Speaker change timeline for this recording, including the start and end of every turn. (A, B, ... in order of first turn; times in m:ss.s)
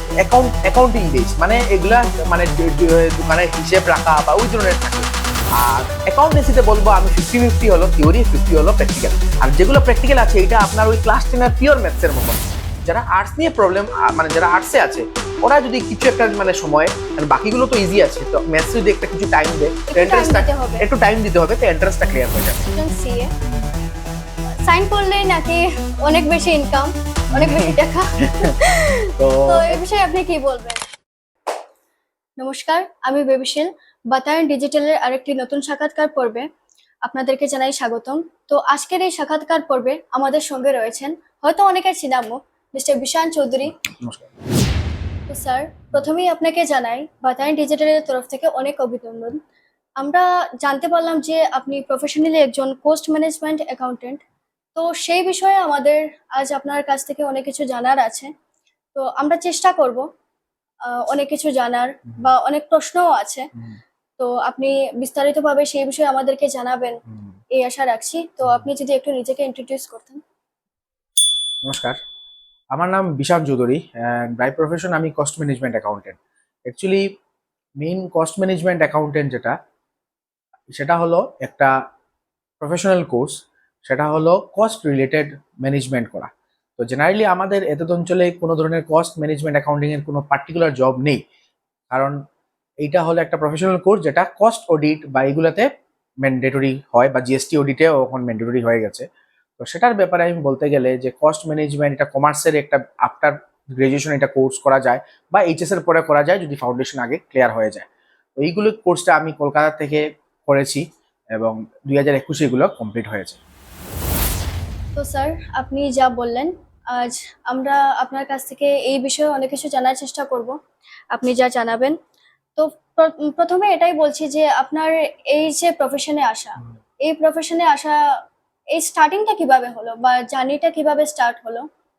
0:00.2-0:22.8 A
0:19.9-0:20.8 B
0:22.7-0:23.3 B
0:23.4-0:23.7 A
0:24.5-0:30.8 B
0:27.3-0:28.5 A
0:29.2-0:29.8 A
0:32.4-0:36.5 B
0:37.0-0:43.7 B
0:43.7-0:44.3 A
0:45.3-0:49.4 B
0:50.0-0:54.2 B
0:54.8-0:58.3 B
0:59.0-1:00.1 B
1:00.8-1:03.5 B
1:04.2-1:07.0 B
1:07.5-1:10.2 B
1:11.6-1:12.0 A
1:12.7-1:17.1 A
1:17.8-1:19.6 A
1:20.7-1:21.7 A
1:22.6-1:31.2 A
1:31.9-1:32.2 A
1:32.8-1:35.7 A
1:36.2-1:39.1 A
1:39.6-1:53.4 A
1:55.0-2:00.6 B
2:01.1-2:02.0 B
2:02.6-2:08.0 B
2:08.7-2:11.7 B